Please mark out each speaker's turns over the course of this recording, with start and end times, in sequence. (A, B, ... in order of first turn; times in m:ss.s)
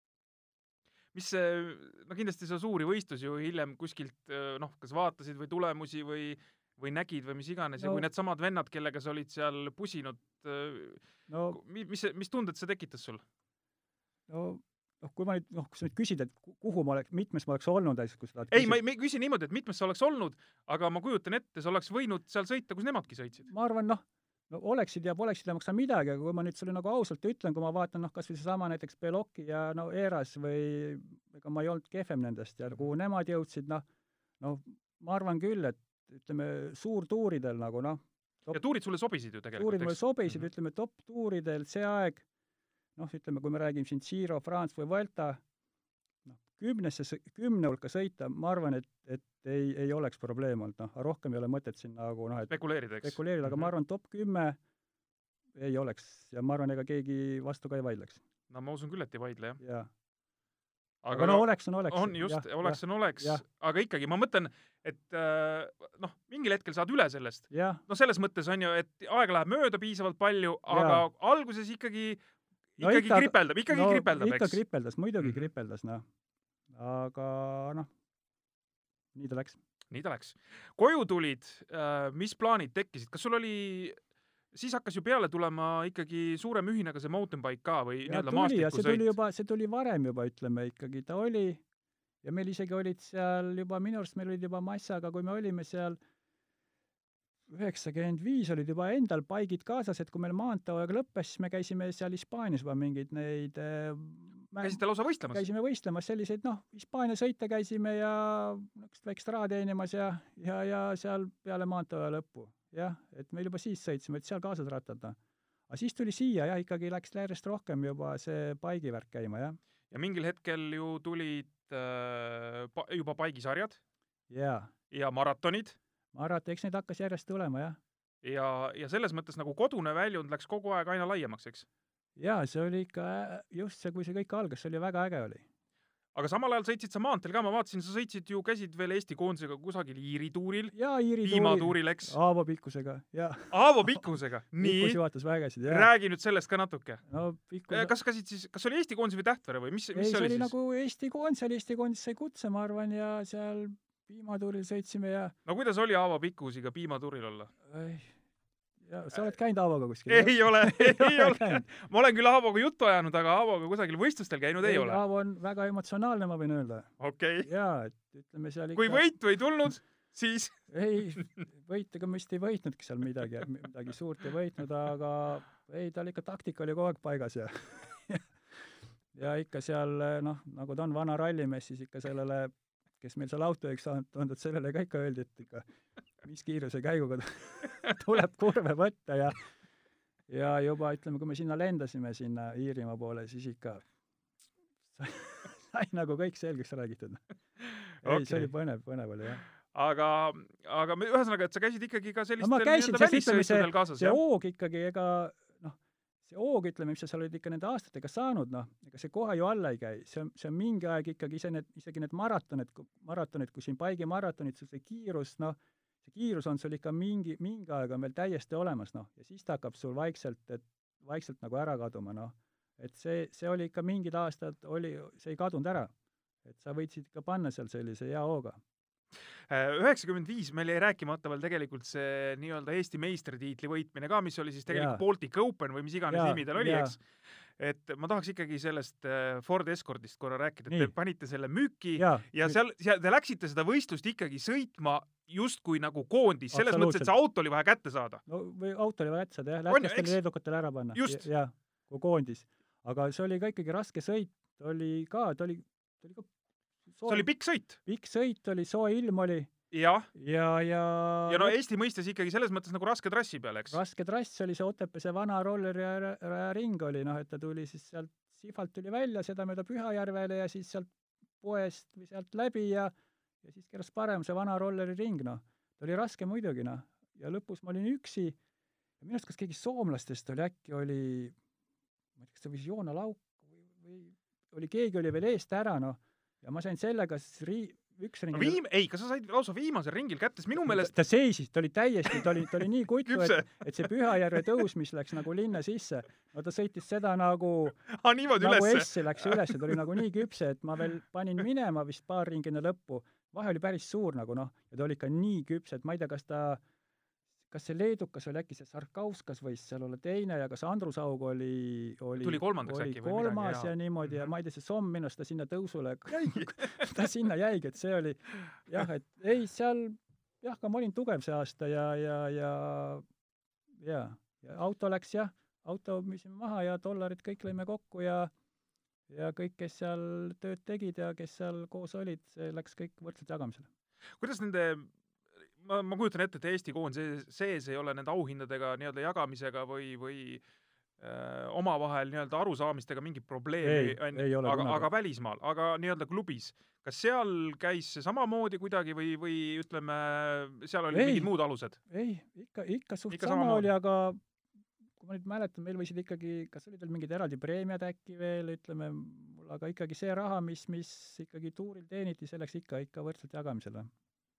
0:01.1-0:13.2 A
0:07.8-0:08.0 B
0:11.3-0:11.6 B
0:14.3-0:18.8 B
0:18.5-0:23.5 A
0:23.5-0:33.8 B
0:34.4-0:38.6 B
0:38.5-0:40.5 A
0:39.6-0:42.2 B
0:43.0-0:45.4 B
0:46.3-0:54.6 B
0:52.5-0:53.7 A
0:55.6-0:58.2 B
0:58.5-0:59.6 A
0:59.6-0:59.9 B
1:01.0-1:12.2 A
1:01.1-1:03.4 B
1:07.5-1:07.8 B
1:10.7-1:11.0 B
1:12.8-1:14.6 A
1:12.8-1:16.0 B
1:15.2-1:15.5 A
1:16.7-1:17.9 B
1:19.2-1:19.6 B
1:19.9-1:24.0 A
1:24.5-1:29.1 A
1:28.0-1:31.6 B
1:32.2-1:36.0 B
1:37.5-1:44.8 B
1:44.6-1:45.5 A
1:45.3-1:55.2 B
1:55.7-1:59.6 B
1:59.9-2:03.8 A
2:04.3-2:04.7 B
2:04.9-2:05.8 A
2:06.1-2:07.8 B
2:08.2-2:11.7 A
2:12.2-2:15.4 B
2:16.2-2:22.2 A
2:20.7-2:24.0 B
2:23.5-2:25.0 A
2:24.6-2:25.9 B
2:25.7-2:27.0 A
2:27.1-2:27.9 B
2:27.7-2:30.5 A
2:30.0-2:35.3 B
2:35.5-2:37.5 A
2:37.7-2:38.1 B
2:38.8-2:41.6 B
2:40.1-2:45.0 A
2:44.6-2:46.9 B
2:47.0-2:47.5 A
2:47.4-2:49.0 B
2:48.8-2:50.6 A
2:50.7-2:58.3 B
2:59.1-3:05.7 B
3:06.2-3:09.4 B
3:10.3-3:13.8 B
3:15.0-3:17.2 B
3:17.7-3:18.5 A
3:18.0-3:19.4 B
3:19.7-3:24.2 A
3:22.4-3:45.9 B
3:46.4-3:48.6 B
3:49.5-3:57.0 A
3:54.7-3:55.0 B
3:56.1-3:57.0 B
3:57.6-4:08.2 A
4:02.0-4:02.6 B
4:06.5-4:07.1 B
4:08.3-4:16.3 B
4:09.7-4:10.2 A
4:11.0-4:11.3 A
4:16.9-4:17.3 B
4:17.1-4:17.8 A
4:17.8-4:19.5 B
4:19.7-4:20.1 A
4:20.2-4:21.6 B
4:21.3-4:23.8 A
4:23.7-4:32.9 B
4:33.4-4:38.4 B
4:39.0-4:41.4 B
4:42.2-4:48.6 B
4:48.3-4:50.9 A
4:50.6-5:06.6 B
4:53.1-4:53.6 A
4:57.9-4:59.8 A
5:07.5-5:23.0 B
5:12.2-5:13.7 A
5:16.3-5:16.8 A
5:23.8-5:28.3 B
5:29.1-5:33.7 B
5:34.2-5:34.9 A
5:35.6-5:40.4 A
5:41.0-5:51.8 A
5:43.6-5:44.9 B
5:50.9-5:51.3 B
5:51.9-5:54.2 B
5:53.1-5:53.7 A
5:55.0-6:03.9 B